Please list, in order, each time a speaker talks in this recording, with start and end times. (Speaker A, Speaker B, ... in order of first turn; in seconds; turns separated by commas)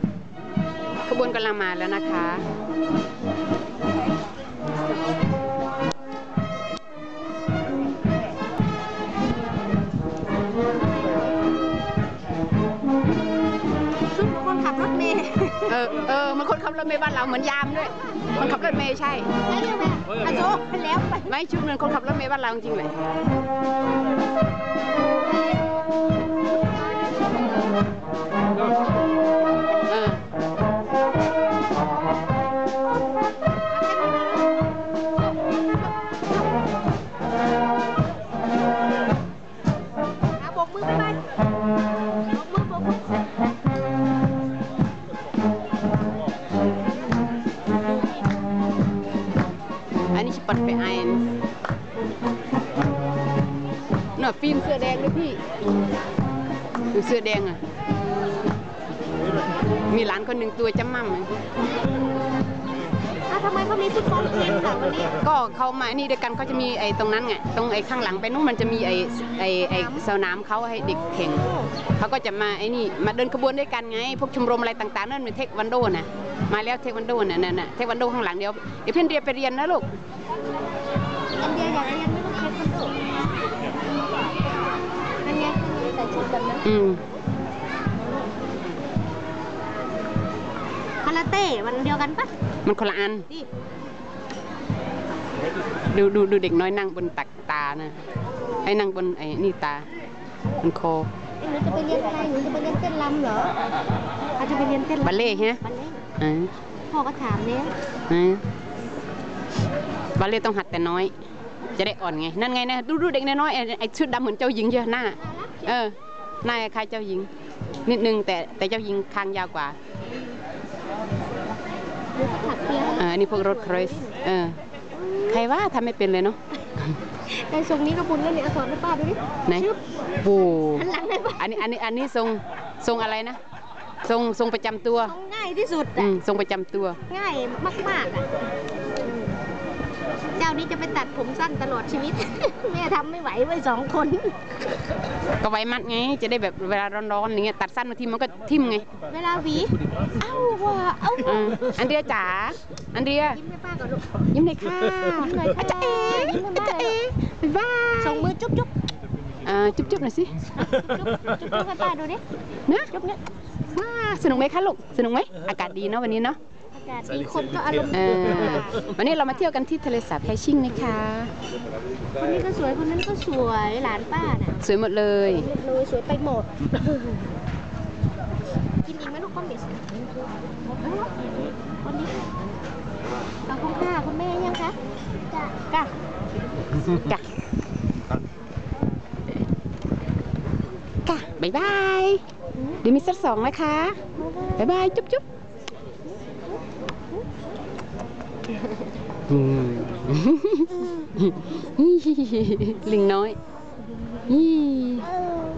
Speaker A: 1.1-2.4, Speaker B: 14.0-15.8, Speaker A: 15.7-19.3, Speaker B: 19.4-21.3, Speaker A: 21.3-22.9, Speaker B: 26.6-27.7, Speaker A: 29.9-30.2, Speaker B: 33.7-34.6, Speaker B: 40.4-41.3, Speaker B: 42.3-43.3, Speaker A: 50.1-51.2, Speaker A: 54.2-55.4, Speaker A: 56.9-57.6, Speaker A: 59.9-61.3, Speaker B: 63.3-65.2, Speaker A: 65.2-71.5, Speaker B: 69.6-70.2, Speaker B: 70.8-71.7, Speaker A: 72.0-79.8, Speaker B: 81.4-83.0, Speaker B: 85.2-86.7, Speaker A: 86.7-87.0, Speaker B: 91.0-92.3, Speaker A: 92.7-93.3, Speaker A: 95.9-98.0, Speaker A: 98.6-99.8, Speaker A: 100.6-101.1, Speaker B: 101.4-103.5, Speaker B: 104.4-106.0, Speaker A: 105.0-105.6, Speaker A: 106.2-106.5, Speaker B: 106.9-107.8, Speaker A: 108.1-108.4, Speaker A: 110.2-111.1, Speaker A: 111.8-117.3, Speaker B: 115.2-115.8, Speaker A: 117.9-119.8, Speaker B: 122.2-124.2, Speaker A: 123.0-124.6, Speaker B: 124.9-125.5, Speaker A: 125.3-126.4, Speaker B: 127.3-129.8, Speaker A: 130.2-130.9, Speaker B: 130.6-131.6, Speaker A: 131.4-133.4, Speaker A: 134.1-135.1, Speaker B: 135.0-136.2, Speaker A: 136.0-137.0, Speaker B: 137.1-138.3, Speaker B: 139.0-139.4, Speaker B: 140.4-144.3, Speaker A: 145.4-148.9, Speaker B: 149.1-151.8, Speaker A: 151.2-153.4, Speaker B: 153.3-154.2, Speaker A: 154.3-158.3, Speaker B: 155.1-157.1, Speaker B: 158.0-158.7, Speaker A: 159.4-160.3, Speaker B: 160.6-162.2, Speaker B: 162.9-163.2, Speaker A: 163.7-166.4, Speaker B: 166.7-169.0, Speaker A: 167.9-171.3, Speaker B: 172.2-174.6, Speaker A: 174.6-175.5, Speaker B: 175.3-177.3, Speaker B: 178.8-179.9, Speaker B: 180.8-181.1, Speaker B: 181.8-182.2, Speaker B: 183.5-184.8, Speaker B: 185.3-185.9, Speaker A: 186.8-187.2, Speaker A: 191.1-192.2, Speaker A: 192.8-194.0, Speaker B: 194.2-194.7, Speaker A: 194.6-195.2, Speaker A: 199.3-203.4, Speaker A: 204.3-205.1